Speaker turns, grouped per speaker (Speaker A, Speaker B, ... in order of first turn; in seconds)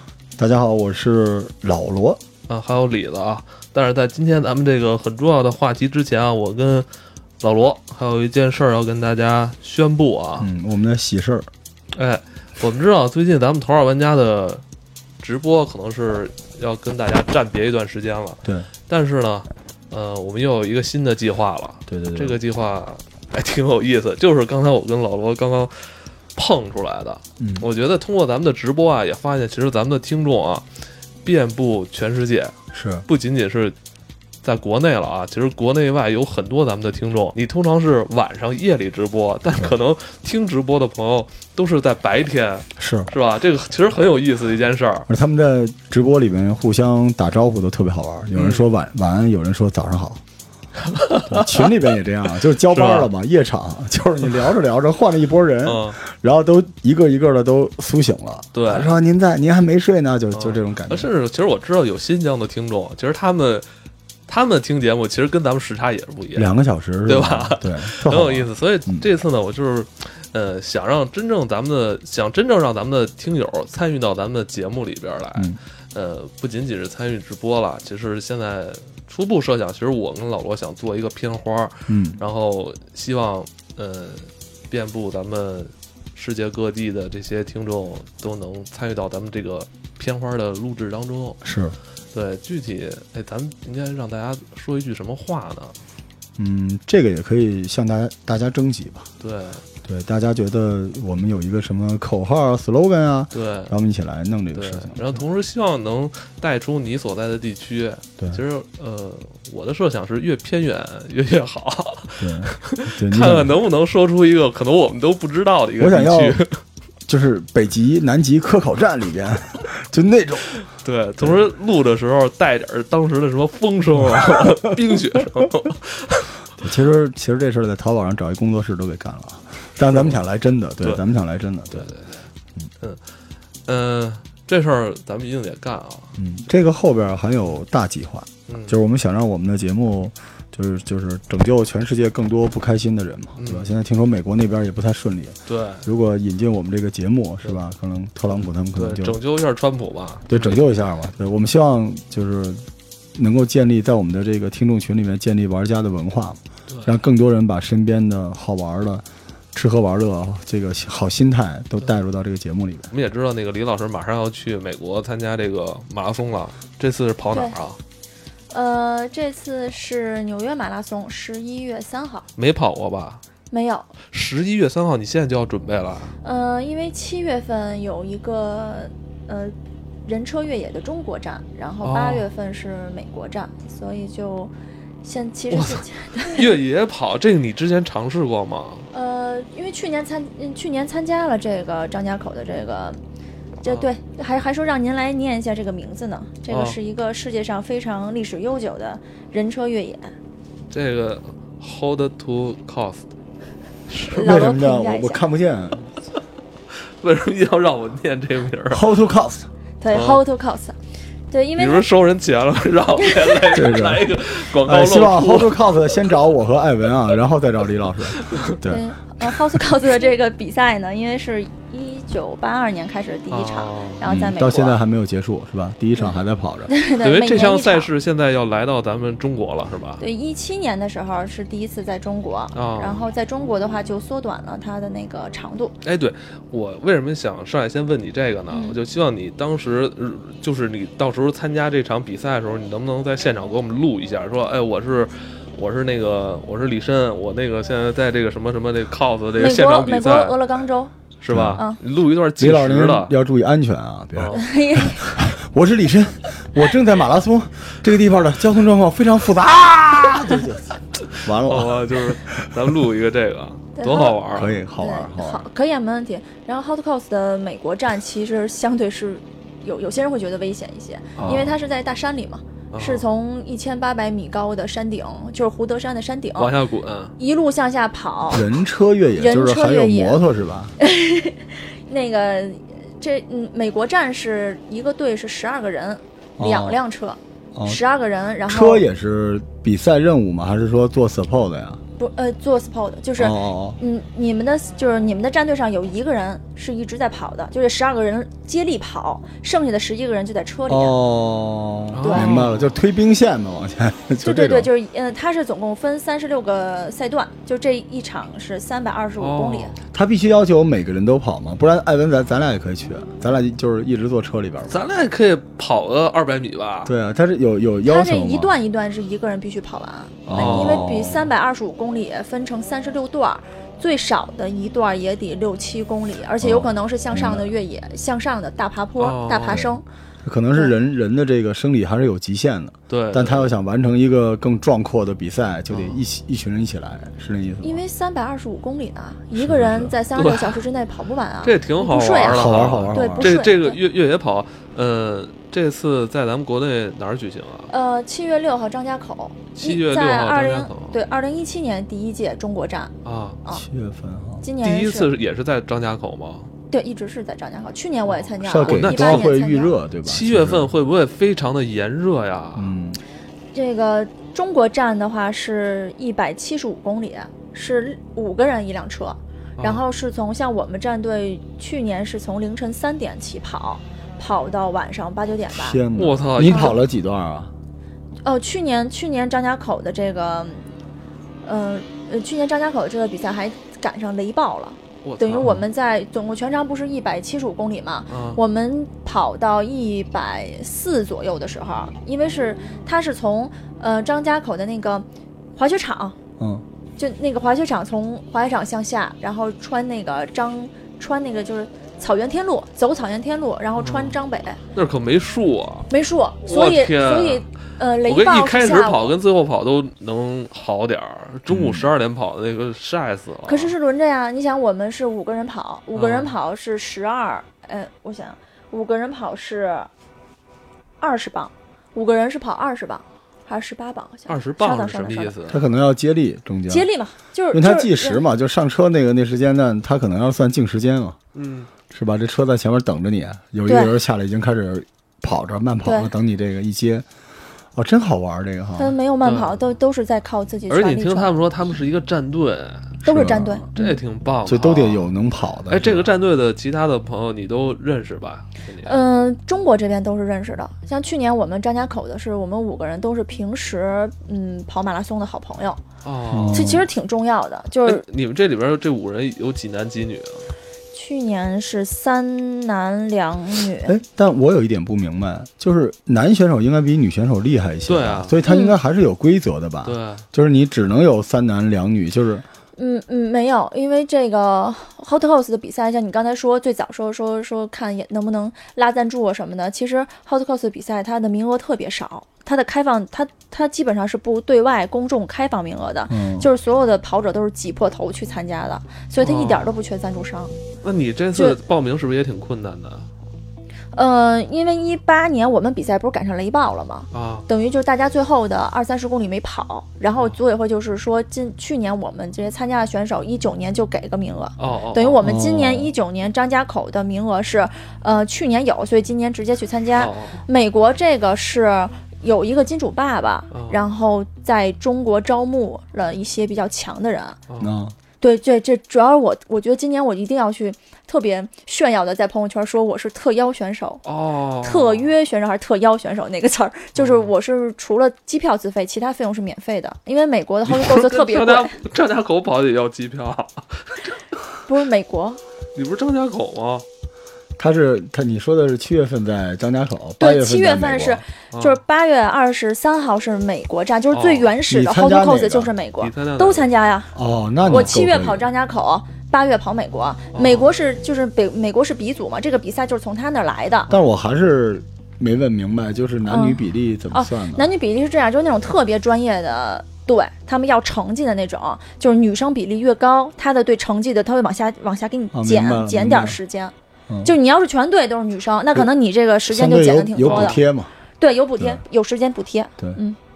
Speaker A: 0.4-2.2, 10.4-11.5, 21.9-22.4, 27.4-27.7, 32.7-33.1, 42.8-43.1, 45.1-50.2, 51.3-61.1, 66.4-69.0, 81.9-82.2, 91.4-91.8, 96.4-99.1, 99.8-105.2, 112.2-113.6, 115.8-116.4, 117.1-120.5, 121.2-121.5, 126.6-131.9, 136.2-149.2, 150.3-152.7, 153.2-162.9, 204.2-205.9, 208.7-209.5, 213.5-219.6, 224.0-226.7, 251.3-251.6, 252.4-262.7, 264.3-265.5, 271.2-271.6, 278.3-280.8, 286.4-286.8, 287.6-287.8, 288.4-291.8, 293.2-293.8, 300.7-304.7, 309.9-314.8, 316.9-318.5, 320.3-321.3, 326.4-327.5, 329.5-329.7, 330.2-337.8, 339.4-339.9, 342.3-343.4, 353.5-354.5, 358.4-360.7, 362.6-363.0, 375.5-377.5, 396.4-396.6, 411.5-411.9, 425.5-426.9, 427.5-431.2, 431.9-437.1, 437.8-439.0, 443.1-443.6, 444.5-446.1, 456.3-456.9, 463.9-472.4, 486.1-486.5, 505.2-505.9, 517.6-518.0, 537.6-541.2, 544.7-545.7, 547.1-548.5, 553.9-557.7, 565.3-566.4, 567.1-567.4, 569.5-570.9
Speaker B: 2.5-6.9, 7.4-10.5, 11.9-14.6, 15.2-30.7, 31.2-32.5, 33.1-33.8, 34.4-45.1, 48.3-48.7, 50.8-51.9, 52.6-53.1, 55.6-56.0, 58.5-59.0, 60.3-63.7, 64.3-66.5, 67.1-91.4, 92.1-95.8, 99.2-99.6, 103.3-103.7, 104.5-116.6, 120.7-126.4, 129.9-130.2, 131.7-132.3, 133.7-136.2, 138.5-138.8, 143.4-143.7, 145.5-145.9, 148.8-150.7, 156.7-157.0, 162.9-167.8, 172.4-173.2, 174.1-176.2, 181.8-182.3, 185.5-188.9, 196.5-196.8, 200.7-203.1, 203.9-204.5, 206.8-208.9, 209.9-210.2, 211.6-215.7, 218.2-218.6, 223.3-224.1, 227.0-230.0, 232.5-233.1, 235.8-250.4, 251.2-253.1, 254.2-254.5, 261.1-264.6, 271.2-271.5, 272.7-273.1, 276.4-277.1, 301.9-302.7, 309.2-309.8, 314.7-316.9, 320.3-320.9, 329.0-329.7, 332.9-333.5, 335.7-336.0, 340.1-340.6, 341.4-347.7, 349.6-351.0, 353.0-353.4, 354.6-356.5, 358.1-359.3, 360.1-362.7, 369.6-369.9, 375.9-376.8, 385.0-385.5, 388.1-388.4, 403.8-404.2, 404.7-405.9, 406.4-407.4, 408.0-413.8, 415.9-416.4, 424.3-425.6, 431.3-431.7, 439.2-439.6, 440.7-443.0, 443.7-445.1, 445.7-449.0, 456.0-456.7, 457.9-460.5, 467.9-468.4, 469.9-470.3, 489.2-489.8, 490.8-493.1, 497.1-497.5, 504.6-505.2, 510.0-510.4, 513.5-513.9, 517.5-517.8, 524.0-525.1, 527.0-527.3, 530.6-534.2, 535.8-536.9, 541.5-541.8, 544.1-544.5, 546.0-546.7, 550.3-550.7, 570.2-570.6
Speaker C: 168.5-172.3, 173.5-173.9, 176.2-179.6, 180.1-184.5, 185.0-186.5, 188.9-193.0, 193.6-200.1, 204.1-205.2, 209.8-210.8, 211.3-211.9, 213.0-213.4, 218.6-224.8, 226.7-227.9, 230.0-235.8, 238.5-238.8, 249.4-250.9, 254.3-255.1, 263.8-276.6, 277.2-278.5, 279.2-280.2, 280.8-288.9, 292.0-301.0, 302.0-302.4, 304.2-309.8, 317.9-329.8, 337.6-343.8, 347.7-353.6, 354.4-355.1, 356.7-359.8, 363.5-375.8, 376.4-376.8, 378.2-380.7, 381.4-395.1, 395.6-396.2, 397.0-404.6, 405.9-409.2, 413.5-419.9, 421.0-425.4, 426.7-428.2, 433.7-434.0, 435.9-436.1, 438.8-441.5, 443.0-444.0, 448.9-455.8, 456.5-458.0, 460.9-463.9, 468.4-468.8, 472.8-490.5, 493.9-517.4, 518.2-524.0, 524.6-531.8, 534.7-535.4, 540.2-547.1, 547.7-553.9, 556.3-566.7, 567.2-570.6, 571.2-573.2